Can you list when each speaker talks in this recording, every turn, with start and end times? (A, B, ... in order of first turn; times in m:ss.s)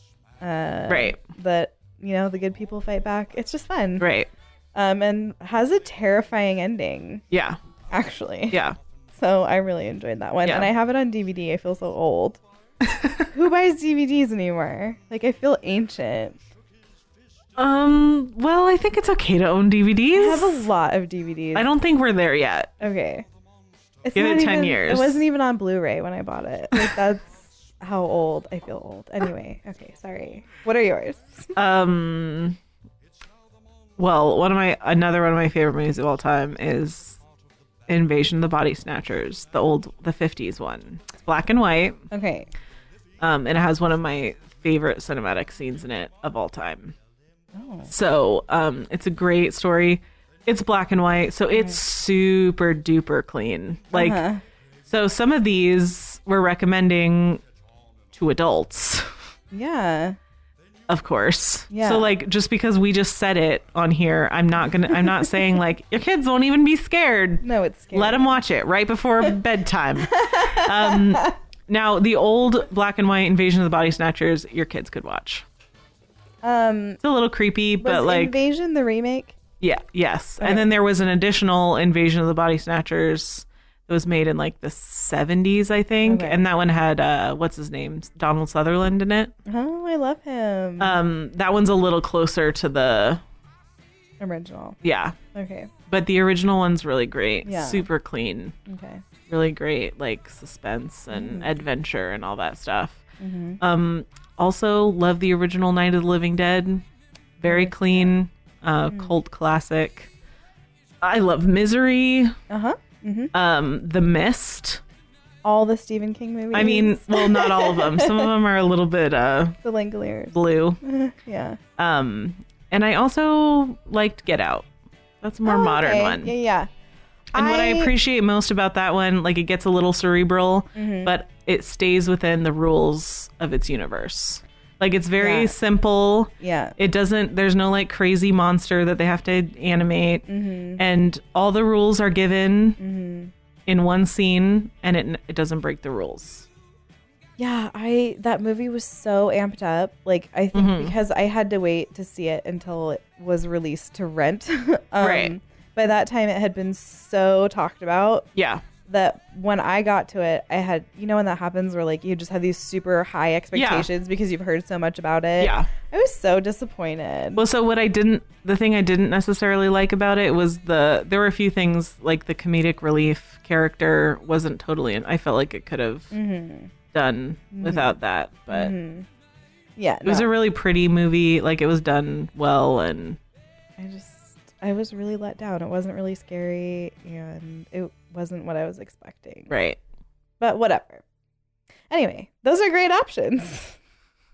0:00.4-0:04.1 A
0:00.9-0:01.2 B
0:04.0-0:04.3 B
0:04.7-0:07.2 A
0:07.3-0:07.6 B
0:07.9-0:08.6 A
0:08.5-0:08.8 B
0:09.2-0:12.4 A
0:10.4-0:10.7 B
0:12.8-0:13.3 B
0:13.3-0:16.4 A
0:17.6-0:20.7 B
0:20.2-0:21.7 A
0:21.5-0:22.7 B
0:22.8-0:23.3 A
0:24.0-0:31.5 A
0:24.2-0:25.2 B
0:31.6-0:32.6 B
0:34.0-0:37.2 B
0:37.9-0:42.1 B
0:42.1-0:42.5 A
0:43.2-0:47.0 B
0:47.5-0:47.9 A
0:47.9-0:54.2 B
0:53.9-0:54.4 A
0:54.8-0:57.4 B
0:58.1-0:59.2 B
0:59.5-1:00.2 A
1:00.9-1:15.5 B
1:01.7-1:02.1 A
1:07.4-1:08.4 A
1:10.0-1:11.3 A
1:16.4-1:17.0 A
1:17.0-1:18.4 B
1:17.8-1:19.4 A
1:19.6-1:29.3 B
1:20.4-1:20.7 A
1:26.0-1:26.4 A
1:29.5-1:31.0 A
1:30.8-1:33.2 B
1:34.2-1:34.8 A
1:34.8-1:35.2 B
1:35.3-1:35.7 A
1:35.9-1:38.6 B
1:37.4-1:37.9 A
1:38.7-1:39.0 A
1:39.3-1:43.0 B
1:41.1-1:41.5 A
1:43.2-1:43.6 A
1:43.6-1:46.8 B
1:47.4-1:50.1 B
1:47.4-1:48.1 A
1:51.0-1:52.4 B
1:52.5-1:53.3 A
1:53.3-1:54.8 B
1:55.4-1:58.3 A
1:56.5-1:59.6 B
1:59.6-2:01.6 A
2:00.3-2:00.8 B
2:01.8-2:04.7 B
2:05.2-2:06.3 B
2:05.4-2:06.7 A
2:07.3-2:20.3 B
2:07.4-2:07.9 A
2:10.8-2:11.1 A
2:15.2-2:15.5 A
2:16.4-2:16.8 A
2:20.3-2:20.8 A
2:20.8-2:22.8 B
2:22.8-2:23.3 A
2:23.7-2:26.5 B
2:27.4-2:38.3 A
2:30.5-2:30.9 B
2:35.0-2:35.3 B
2:38.4-2:38.6 B
2:38.9-2:47.4 A
2:43.5-2:43.9 B
2:45.4-2:45.7 B
2:47.4-2:56.1 B
2:56.1-2:56.7 A
2:56.9-2:58.7 B
2:57.6-2:57.9 A
2:58.5-2:59.1 A
2:59.8-3:00.3 A
3:00.0-3:03.2 B
3:03.8-3:09.5 A
3:09.5-3:09.8 B
3:10.4-3:11.0 A
3:11.9-3:13.8 A